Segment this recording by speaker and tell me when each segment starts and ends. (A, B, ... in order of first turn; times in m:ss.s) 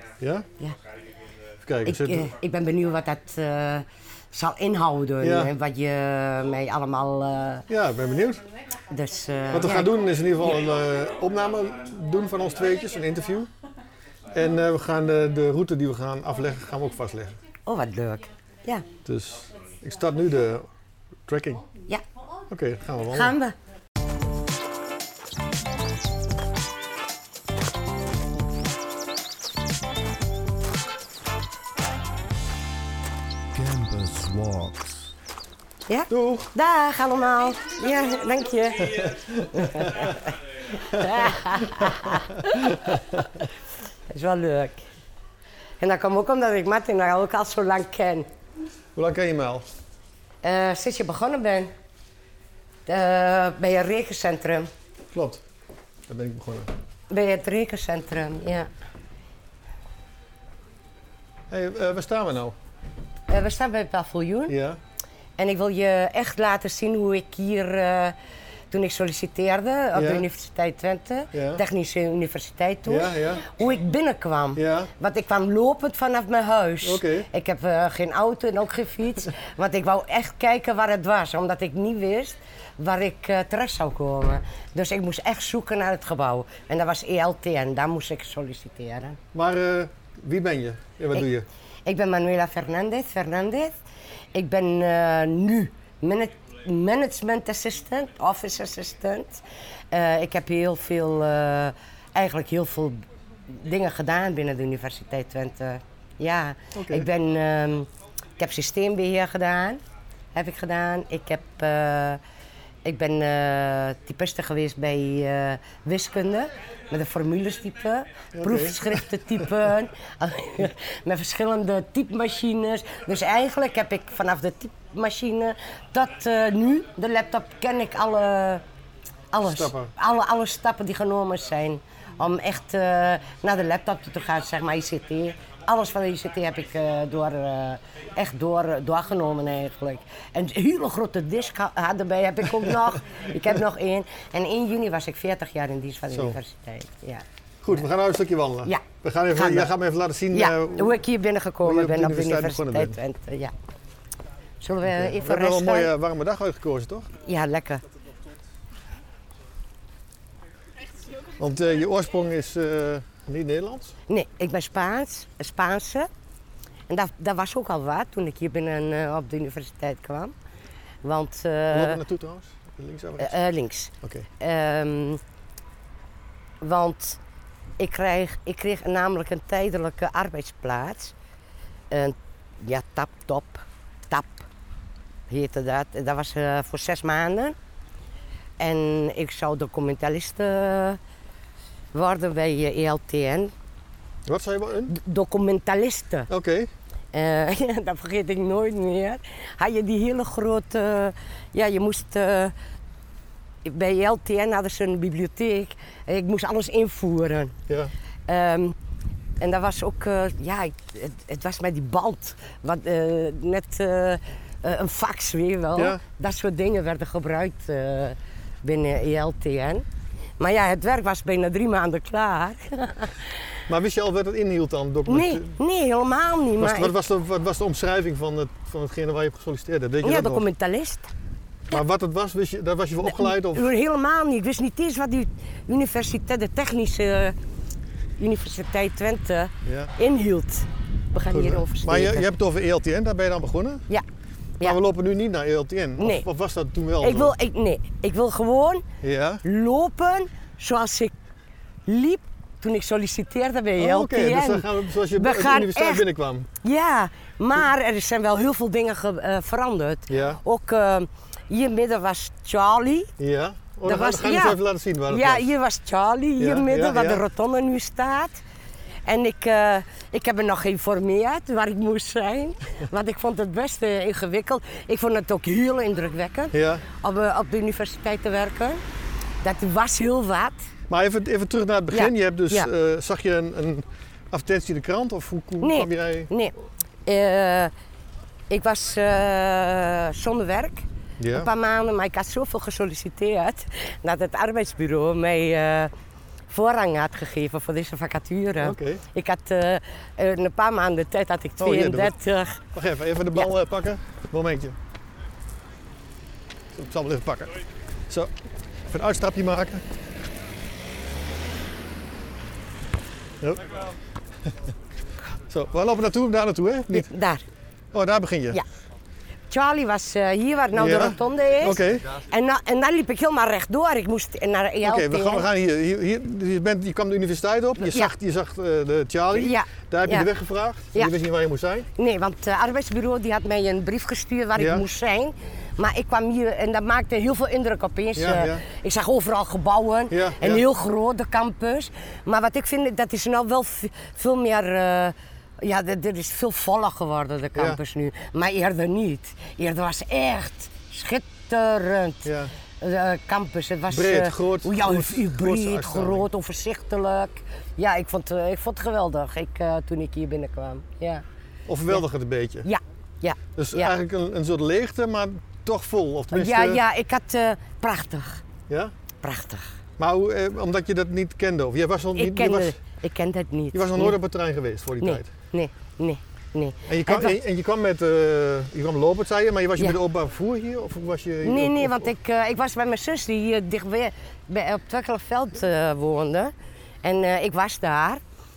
0:00.2-0:00.5 A
0:01.6-0:02.3 A
0:01.8-0:07.7 B
0:05.2-0:05.5 A
0:07.7-0:08.4 A
0:08.9-0:09.9 B
0:09.5-0:13.5 A
0:14.3-0:17.4 A
0:17.6-0:18.8 B
0:19.0-0:20.7 A
0:21.3-0:21.6 A
0:22.5-0:23.3 A
0:23.1-0:23.5 B
0:33.5-0:35.0 A
0:35.9-0:43.0 B
0:36.1-0:36.5 A
0:38.8-0:40.2 A
0:40.8-0:43.4 A
0:44.1-0:44.8 B
0:45.8-0:48.3 B
0:49.0-0:49.6 A
0:50.4-0:51.7 B
0:52.8-0:54.7 B
0:55.1-0:55.4 A
0:56.1-0:56.7 A
0:57.1-0:58.7 B
1:01.5-1:02.5 A
1:03.3-1:04.6 B
1:04.5-1:04.8 A
1:05.4-1:08.2 B
1:08.7-1:29.2 B
1:09.9-1:10.2 A
1:11.3-1:11.6 A
1:12.8-1:13.5 A
1:14.6-1:14.9 A
1:16.8-1:17.3 A
1:29.3-1:31.4 A
1:31.8-1:33.7 B
1:34.3-1:49.8 B
1:46.7-1:47.1 A
1:50.3-1:52.2 B
1:52.8-2:08.6 B
1:58.3-1:59.0 A
2:09.3-2:27.2 B
2:09.4-2:09.9 A
2:26.1-2:26.4 A
2:27.6-2:31.0 A
2:28.6-2:29.7 B
2:30.3-2:33.5 B
2:31.6-2:33.0 A
2:34.6-2:35.9 B
2:34.8-2:37.1 A
2:37.2-2:37.8 B
2:41.4-2:44.0 A
2:44.1-2:46.1 B
2:46.9-2:50.3 B
2:51.0-2:52.0 B
2:51.7-2:53.4 A
2:53.2-2:55.2 B
2:54.0-2:54.3 A
2:56.6-2:57.2 B
2:57.8-3:01.1 B
3:01.9-3:04.5 B
3:05.3-3:07.6 B
3:08.6-3:11.0 B
3:11.9-3:13.5 B
3:14.2-3:14.9 A
3:14.9-3:16.3 B
3:16.3-3:16.7 A
3:17.1-3:22.5 B
3:23.6-3:27.5 B
3:28.3-3:28.8 B
3:29.4-3:39.8 B
3:35.7-3:36.0 A
3:40.4-3:43.3 B
3:43.7-3:45.6 A
3:45.1-3:46.9 B
3:46.6-3:50.4 A
3:50.0-3:51.1 B
3:51.7-3:53.7 A
3:53.0-3:57.4 B
3:58.2-4:02.3 B
3:59.6-3:59.9 A
4:01.3-4:03.8 A
4:04.6-4:07.3 A
4:06.0-4:06.2 B
4:07.0-4:08.8 B
4:09.0-4:09.4 A
4:09.4-4:11.1 B
4:11.8-4:16.0 B
4:13.8-4:16.5 A
4:16.6-4:23.1 B
4:20.1-4:20.4 A
4:23.2-4:25.5 A
4:23.8-4:28.4 B
4:26.4-4:27.2 A
4:29.0-4:38.8 B
4:36.5-4:36.8 A
4:39.4-4:40.6 B
4:40.9-4:46.3 A
4:41.9-4:42.7 B
4:45.6-4:46.5 B
4:47.0-4:47.7 B
4:48.5-4:55.9 B
4:51.2-4:51.5 A
4:56.5-5:02.6 B
4:58.6-4:59.0 A
5:01.6-5:02.1 A
5:02.7-5:04.8 A
5:06.7-5:07.6 A
5:08.9-5:09.8 A
5:13.4-5:13.7 A
5:15.5-5:17.1 A
5:16.9-5:17.4 B
5:17.9-5:18.6 A
5:19.5-5:25.5 B
5:20.7-5:22.2 A
5:24.8-5:31.9 A
5:27.8-5:28.1 B
5:29.3-5:30.3 B
5:32.0-6:01.2 B
5:34.6-5:34.8 A
5:38.1-5:38.6 A
5:40.1-5:40.6 A
5:47.5-5:47.8 A
5:52.2-5:52.5 A
5:53.9-5:56.3 A
6:01.7-6:02.7 A
6:02.6-6:03.9 B
6:03.6-6:06.8 A
6:06.3-6:08.4 B
6:08.7-6:08.9 A
6:09.2-6:09.7 B
6:10.0-6:12.8 A
6:12.2-6:14.2 B
6:13.7-6:15.3 A
6:15.0-6:17.4 B
6:16.9-6:22.1 A
6:21.4-6:26.5 B
6:27.0-6:28.2 B